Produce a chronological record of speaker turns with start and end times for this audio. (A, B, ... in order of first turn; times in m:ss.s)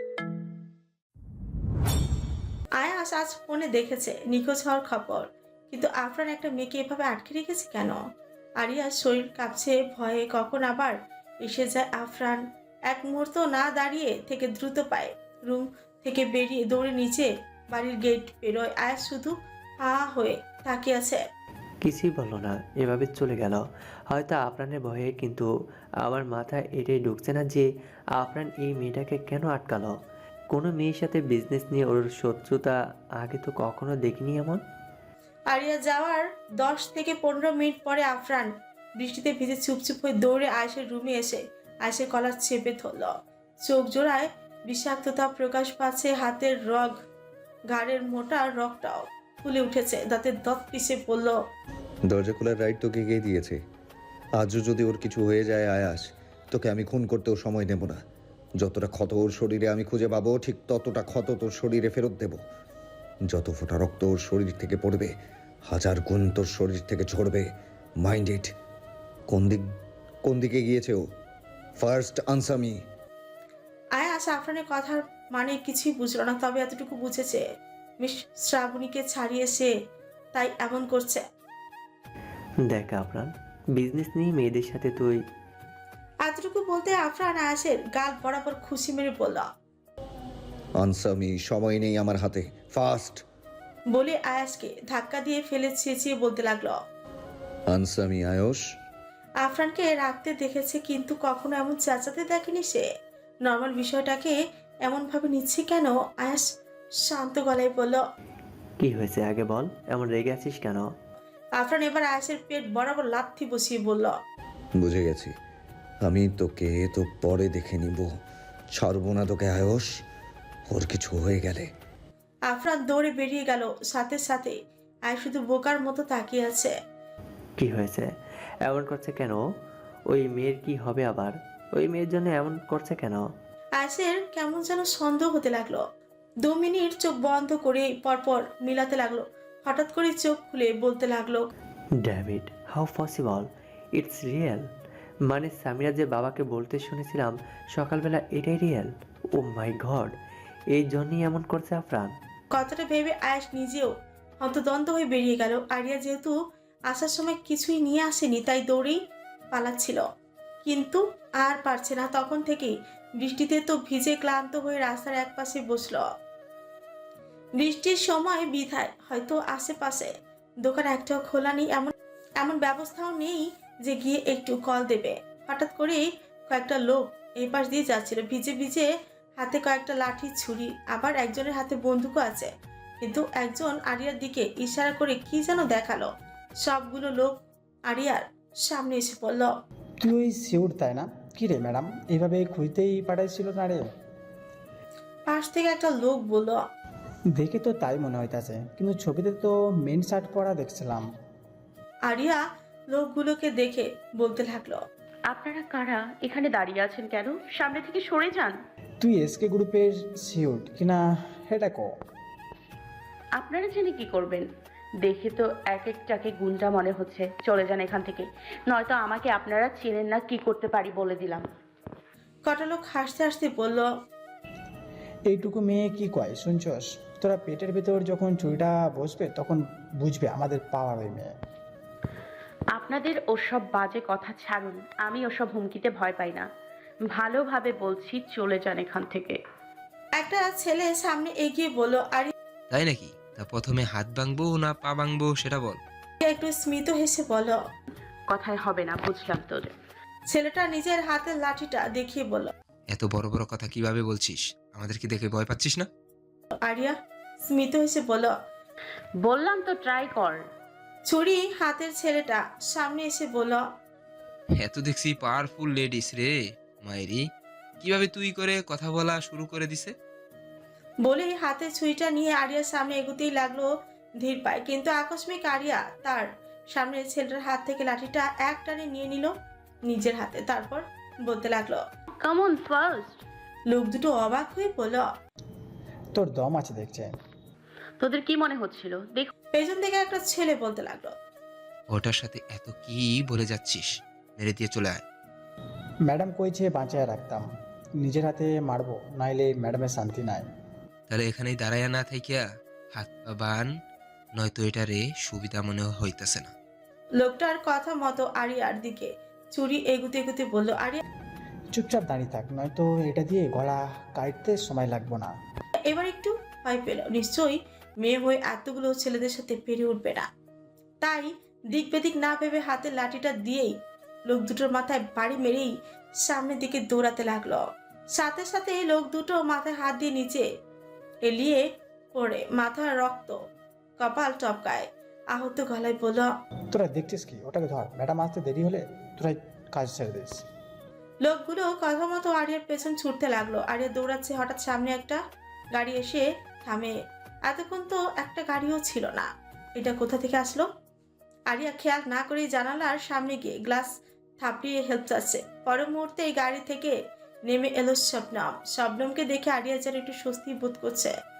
0:02.8-0:08.0 A
0:08.6-0:21.2 A
0:21.8-0:25.5 B
0:26.0-0:29.9 B
0:30.5-0:34.6 B
0:35.5-0:43.1 A
0:43.6-0:46.9 A
0:47.7-0:51.4 A
0:52.0-0:53.6 C
0:54.4-0:58.0 C
0:58.6-1:02.4 C
1:03.3-1:05.1 C
1:05.6-1:08.5 C
1:09.3-1:09.6 C
1:10.2-1:11.0 C
1:11.8-1:12.8 C
1:14.0-1:17.4 A
1:18.0-1:19.7 A
1:20.3-1:21.2 A
1:22.7-1:25.2 B
1:26.2-1:29.5 A
1:30.8-1:33.2 C
1:33.9-1:36.8 A
1:37.7-1:38.6 C
1:39.4-1:42.9 A
1:43.4-1:46.5 A
1:47.0-1:48.0 A
1:48.8-1:50.9 B
1:51.6-1:54.1 A
1:54.8-1:55.3 C
1:56.0-1:58.1 C
1:58.7-1:59.9 C
2:00.7-2:01.7 C
2:02.5-2:04.6 A
2:05.1-2:06.7 A
2:07.6-2:08.1 B
2:08.6-2:09.4 B
2:10.1-2:13.3 B
2:13.8-2:15.8 A
2:16.4-2:21.4 A
2:22.0-2:24.7 B
2:25.3-2:30.2 B
2:30.7-2:32.1 B
2:32.5-2:36.3 A
2:36.9-2:39.0 A
2:39.5-2:40.0 A
2:40.6-2:46.0 A
2:47.6-2:50.1 A
2:50.6-2:58.9 A
2:59.4-3:02.5 A
3:03.0-3:06.1 A
3:06.6-3:07.4 A
3:07.9-3:09.5 A
3:10.0-3:13.8 D
3:15.3-3:16.6 A
3:17.4-3:21.0 D
3:22.1-3:22.4 A
3:22.9-3:24.8 A
3:25.3-3:28.5 E
3:29.0-3:31.9 D
3:33.4-3:34.4 E
3:35.0-3:41.4 E
3:42.4-3:43.9 A
3:45.3-3:51.3 D
3:52.8-3:56.4 E
3:57.2-3:59.4 E
4:00.2-4:02.3 A
4:02.7-4:05.8 F
4:06.2-4:07.6 A
4:08.3-4:09.7 E
4:10.3-4:12.5 A
4:12.9-4:15.9 F
4:16.6-4:17.0 A
4:17.5-4:18.3 A
4:19.2-4:20.4 E
4:21.1-4:23.6 A
4:24.6-4:27.3 F
4:27.8-4:29.9 F
4:31.0-4:33.7 A
4:34.2-4:39.3 A
4:39.9-4:41.8 A
4:42.2-4:43.2 E
4:43.7-4:45.1 A
4:46.1-4:47.1 D
4:48.0-4:49.3 E
4:49.5-4:51.1 A
4:51.9-4:55.0 F
4:56.0-4:57.4 D
4:58.0-5:00.5 D
5:01.1-5:03.7 F
5:04.4-5:06.5 F
5:07.2-5:11.0 A
5:11.7-5:15.3 D
5:15.9-5:20.3 A
5:21.0-5:23.7 A
5:24.3-5:30.4 A
5:31.2-5:33.4 A
5:34.0-5:36.3 A
5:36.7-5:40.4 D
5:41.2-5:45.2 A
5:45.7-5:46.9 A
5:47.5-5:50.7 A
5:51.5-5:53.9 A
5:54.4-5:56.9 A
5:57.5-6:01.1 A